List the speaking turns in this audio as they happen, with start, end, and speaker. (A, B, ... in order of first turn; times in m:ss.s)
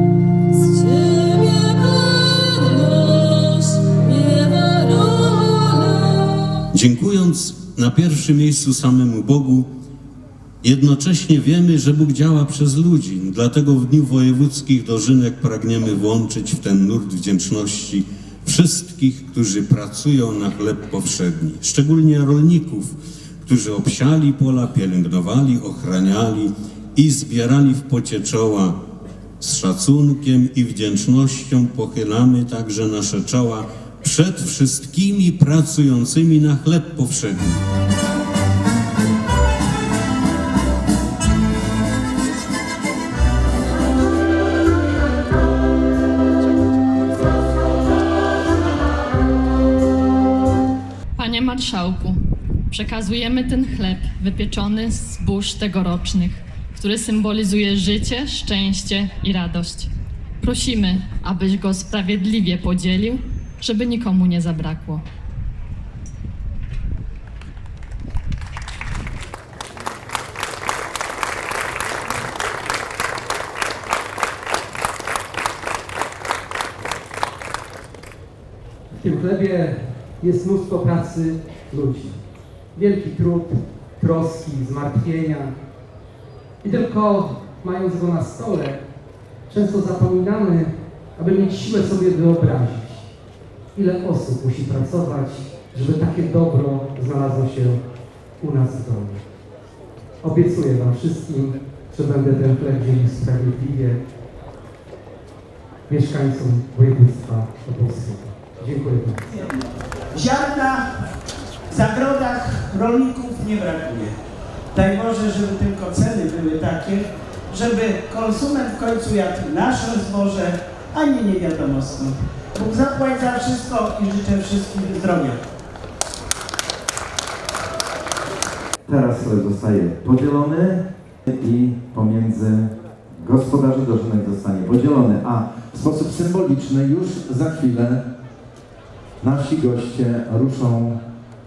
0:00.9-0:05.5 A
0:06.7-0:09.7 B
0:10.6-0:28.8 B
0:29.4-0:37.6 B
0:51.2-0:52.2 A
0:52.7-1:05.0 A
1:18.9-1:22.2 C
1:22.7-1:25.6 C
1:26.6-1:28.8 C
1:29.5-1:33.1 C
1:33.8-1:37.8 C
1:38.4-1:39.2 C
1:40.2-1:44.0 C
1:45.9-1:49.2 C
1:49.5-1:50.8 D
1:51.7-1:54.1 D
1:54.7-2:05.4 D
2:08.9-2:18.1 E
2:19.2-2:21.0 E